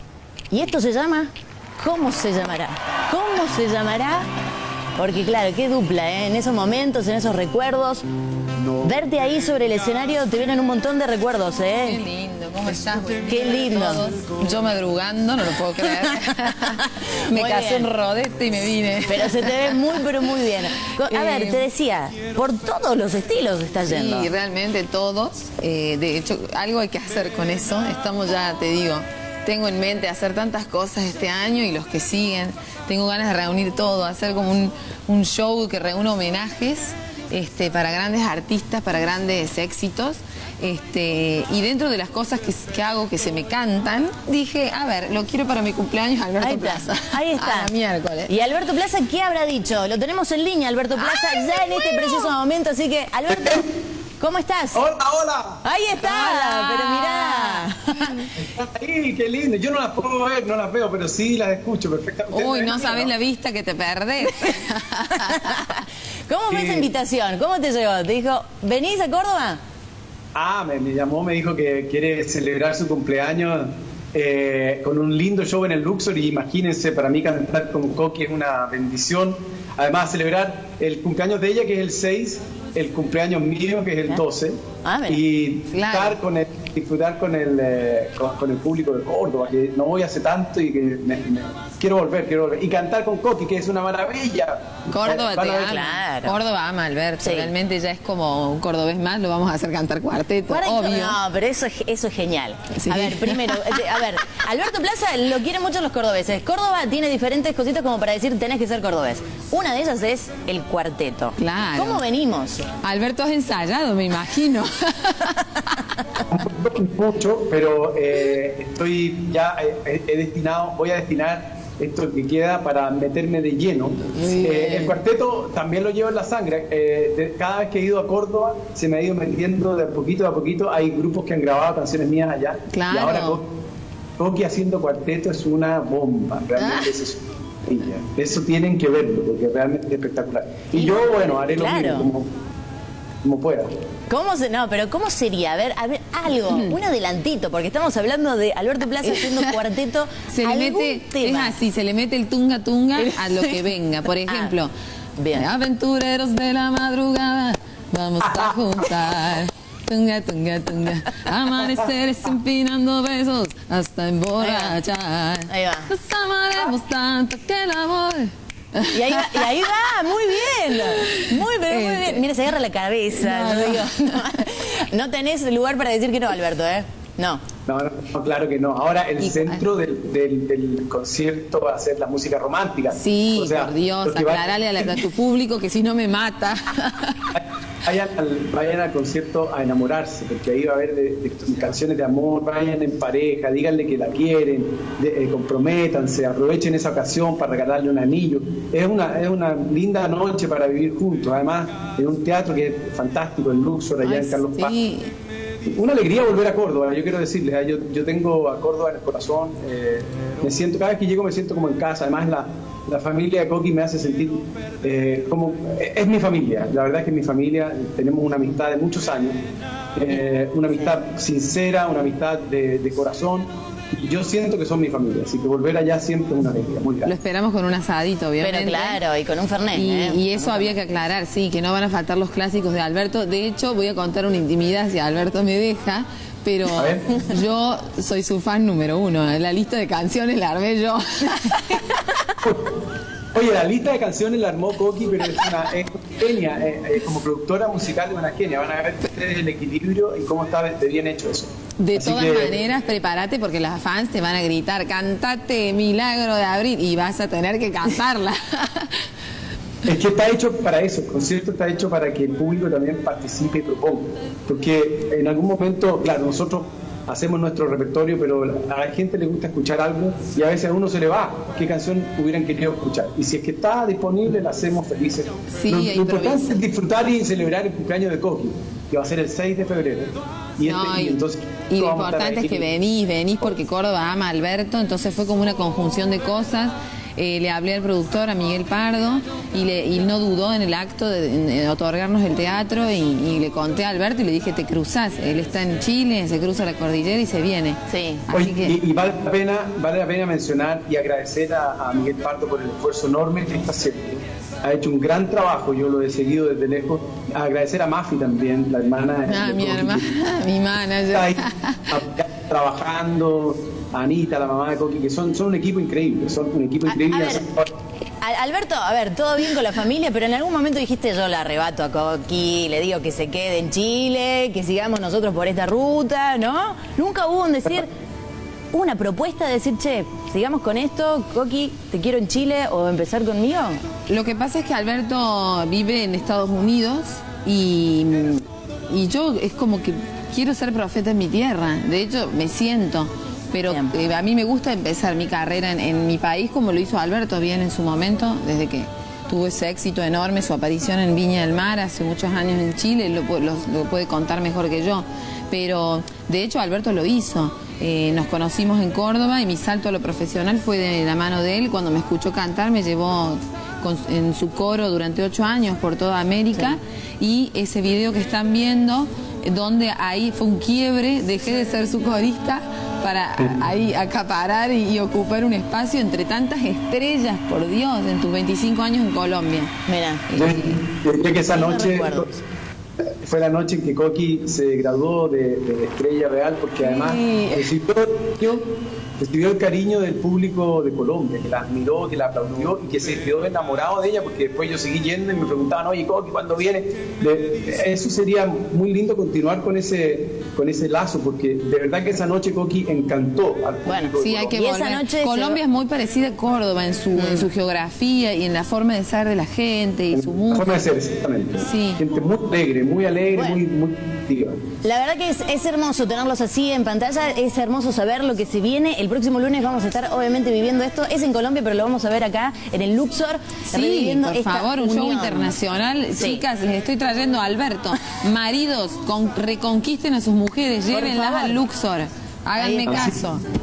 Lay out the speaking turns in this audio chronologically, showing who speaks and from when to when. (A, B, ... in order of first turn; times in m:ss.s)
0:00.5-0:04.3 A
0:05.0-0:08.0 A
0:08.8-0:12.0 A
0:11.8-0:20.0 B
0:13.2-0:14.0 A
0:15.9-0:17.9 A
0:19.0-0:24.3 A
0:20.9-0:21.7 B
0:23.8-0:48.3 B
0:46.4-0:47.7 A
0:48.3-0:53.6 A
0:54.2-0:54.8 A
0:54.7-0:55.6 C
0:55.6-0:58.3 A
0:56.0-0:58.2 B
0:58.4-1:03.1 C
1:02.3-1:05.7 B
1:05.1-1:09.6 A
1:06.5-1:06.9 C
1:10.4-1:35.7 C
1:24.8-1:25.2 A
1:25.7-1:26.2 B
1:34.9-1:41.2 B
1:35.4-1:36.4 A
1:37.2-1:37.5 A
1:40.5-1:52.6 A
1:42.8-1:43.8 B
1:51.4-1:52.0 B
1:52.8-1:55.8 B
1:56.3-2:13.5 C
2:04.1-2:05.0 B
2:12.7-2:13.4 B
2:14.2-2:22.3 C
2:16.6-2:17.0 B
2:20.7-2:22.1 A
2:23.2-2:23.7 C
2:24.1-2:31.6 A
2:26.5-2:26.8 B
2:29.2-2:29.5 B
2:30.3-2:34.7 B
2:33.0-2:33.7 A
2:34.2-2:34.6 A
2:35.2-2:35.5 A
2:35.3-2:49.7 B
2:38.2-2:38.6 C
2:44.4-2:44.8 A
2:45.5-2:45.9 A
2:48.9-2:57.4 A
2:50.5-2:52.2 B
2:53.1-2:54.4 B
2:57.7-3:05.0 C
2:59.2-2:59.6 B
3:03.0-3:07.3 B
3:07.3-3:24.7 C
3:24.0-3:25.1 B
3:25.7-3:39.4 C
3:40.0-3:47.1 C
3:47.0-3:49.0 B
3:48.4-3:50.7 A
3:49.7-4:02.2 B
3:56.7-3:57.1 C
4:02.4-4:02.7 C
4:03.3-4:12.6 C
4:11.8-4:19.1 B
4:19.8-4:42.7 C
4:35.6-4:36.6 B
4:40.6-4:58.8 B
4:57.9-4:58.2 A
4:58.3-5:10.1 C
5:09.3-5:11.9 B
5:11.1-5:17.7 C
5:16.9-5:17.4 A
5:18.2-5:27.9 A
5:28.7-5:33.8 A
5:34.1-6:19.7 B
5:43.6-5:43.9 A
6:19.9-6:20.2 A
6:20.3-6:20.8 B
6:20.3-6:22.3 C
6:21.5-6:22.3 A
6:23.2-6:28.6 C
6:26.8-6:27.7 B
6:29.2-6:44.6 C
6:43.8-6:45.6 A
6:44.2-6:50.8 B
6:47.2-6:47.4 A
6:50.1-6:54.6 C
6:51.6-6:52.0 B
6:53.3-6:53.6 A
6:54.8-7:05.5 A
7:03.7-7:13.4 B
7:06.2-7:06.4 A
7:10.9-7:11.6 A
7:12.6-7:13.2 A
7:12.8-7:13.2 C